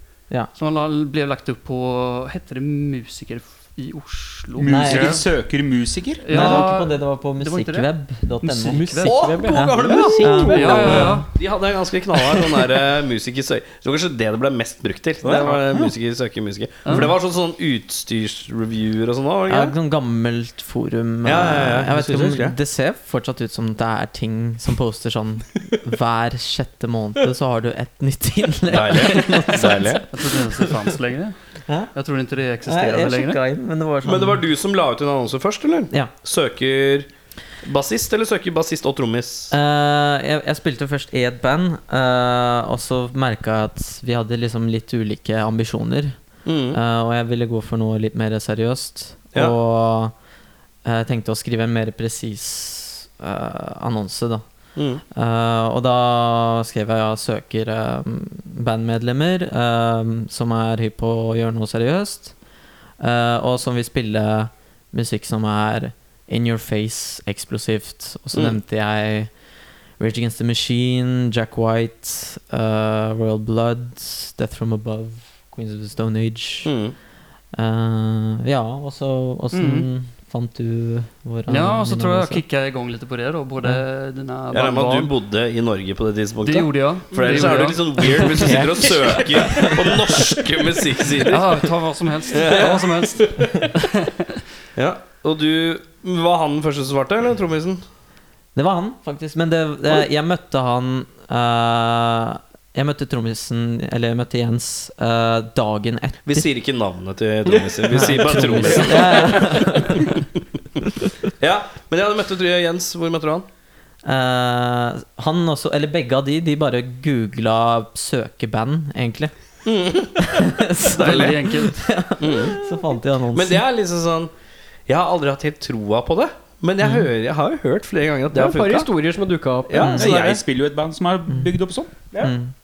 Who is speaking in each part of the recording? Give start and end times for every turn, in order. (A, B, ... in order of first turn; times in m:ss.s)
0:00.5-0:05.2 A
0:04.6-0:06.6 B
0:04.6-0:05.2 C
0:06.2-0:07.9 A
0:06.3-0:11.2 C
0:06.3-0:06.6 D
0:08.4-0:09.4 A
0:08.7-0:11.2 D
0:09.0-0:19.7 E
0:10.3-0:11.3 A
0:15.2-0:15.9 D
0:16.8-0:17.1 A
0:19.5-0:30.9 C
0:21.2-0:22.6 E
0:28.7-0:30.0 E
0:29.0-0:31.3 A
0:31.7-0:31.9 C
0:31.9-0:33.4 A
0:32.6-0:34.4 C
0:34.0-0:37.1 E
0:37.6-0:39.5 E
0:39.5-0:46.2 C
0:46.4-0:46.8 E
0:46.7-0:50.1 C
0:50.8-0:54.4 C
0:54.8-0:55.0 E
0:55.1-1:02.3 C
1:03.0-1:09.3 C
1:10.0-1:16.7 C
1:16.6-1:16.9 E
1:17.5-1:22.4 C
1:19.5-1:19.9 A
1:21.5-1:25.1 A
1:24.5-1:31.5 E
1:26.4-1:29.7 A
1:28.3-1:30.2 C
1:31.2-1:34.3 A
1:32.3-1:33.1 E
1:34.8-1:37.8 E
1:38.5-1:46.5 C
1:46.2-1:49.6 E
1:47.9-1:50.2 C
1:51.4-1:53.4 E
1:54.0-1:59.3 C
1:59.6-2:00.2 E
2:00.2-2:03.6 C
2:00.9-2:01.3 E
2:01.0-2:01.9 A
2:02.2-2:02.6 E
2:03.3-2:04.3 E
2:04.9-2:08.9 E
2:06.8-2:07.1 C
2:08.3-2:10.0 D
2:09.7-2:10.4 E
2:09.8-2:10.1 C
2:10.0-2:11.9 B
2:12.2-2:12.5 C